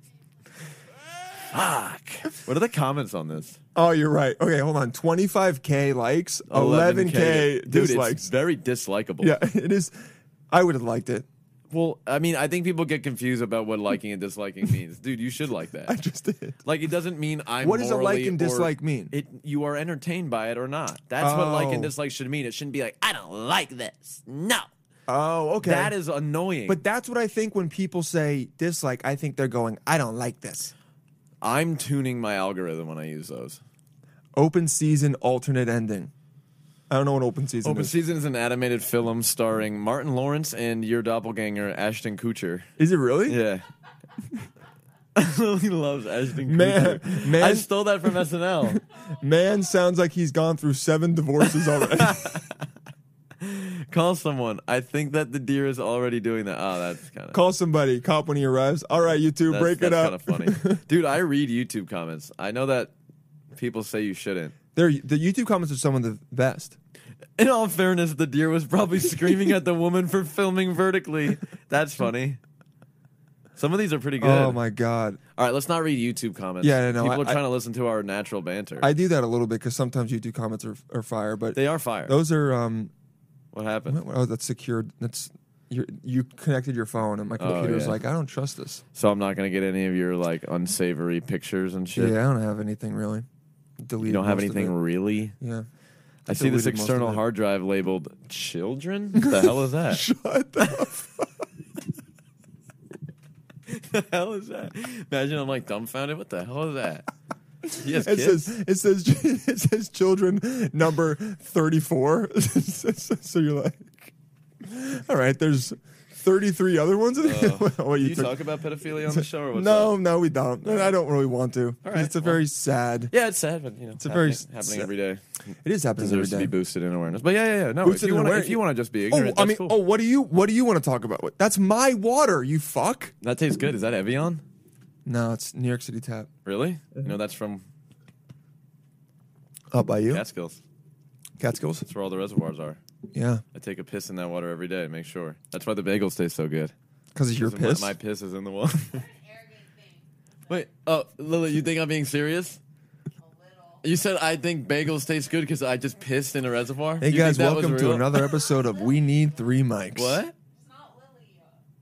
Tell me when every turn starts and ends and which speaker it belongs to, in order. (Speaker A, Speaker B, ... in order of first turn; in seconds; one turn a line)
Speaker A: 1.5-3.6
Speaker B: 3.7-8.3
Speaker A: 6.5-9.3
Speaker B: 9.2-9.9
Speaker B: 10.5-11.2
Speaker A: 11.7-15.9
Speaker B: 15.9-16.6
Speaker A: 16.6-24.7
Speaker B: 17.6-19.1
Speaker B: 21.2-21.9
Speaker B: 25.1-25.9
Speaker A: 25.6-26.8
Speaker B: 26.7-30.7
Speaker A: 31.4-33.6
Speaker B: 34.4-36.1
Speaker B: 36.9-37.9
Speaker A: 37.6-42.7
Speaker B: 42.8-43.4
Speaker A: 43.3-43.6
Speaker A: 45.1-48.8
Speaker B: 46.4-47.7
Speaker B: 48.7-52.4
Speaker A: 52.0-52.5
Speaker A: 53.4-57.4
Speaker B: 57.3-60.8
Speaker A: 59.5-62.9
Speaker A: 63.5-64.5
Speaker B: 64.7-66.7
Speaker A: 67.4-72.4
Speaker A: 73.6-74.6
Speaker B: 74.2-75.2
Speaker A: 75.4-78.9
Speaker B: 76.6-77.4
Speaker B: 78.8-82.9
Speaker A: 81.5-82.2
Speaker A: 83.5-84.0
Speaker B: 83.9-88.8
Speaker A: 87.4-88.0
Speaker A: 88.9-92.2
Speaker B: 91.9-93.2
Speaker B: 93.8-94.8
Speaker A: 94.0-95.4
Speaker B: 95.4-95.7
Speaker A: 96.3-100.0
Speaker B: 96.3-97.2
Speaker B: 99.2-101.3
Speaker A: 103.7-107.0
Speaker A: 107.8-108.5
Speaker B: 107.8-118.4
Speaker A: 117.2-120.0
Speaker B: 119.1-123.1
Speaker A: 120.6-120.9
Speaker A: 121.8-122.4
Speaker A: 123.1-125.2
Speaker B: 124.0-124.9
Speaker B: 125.6-126.5
Speaker A: 126.0-129.8
Speaker B: 127.8-133.1
Speaker A: 133.2-134.4
Speaker B: 135.0-136.3
Speaker A: 136.4-137.6
Speaker B: 139.7-140.2
Speaker A: 140.1-140.6
Speaker B: 141.4-141.8
Speaker A: 141.8-142.8
Speaker B: 143.1-143.4
Speaker A: 143.5-146.7
Speaker B: 147.1-147.9
Speaker A: 147.4-149.0
Speaker C: 148.9-150.1
Speaker A: 150.5-152.6
Speaker C: 153.2-153.9
Speaker A: 153.8-158.2
Speaker B: 157.0-160.2
Speaker A: 159.9-160.3
Speaker C: 160.5-161.6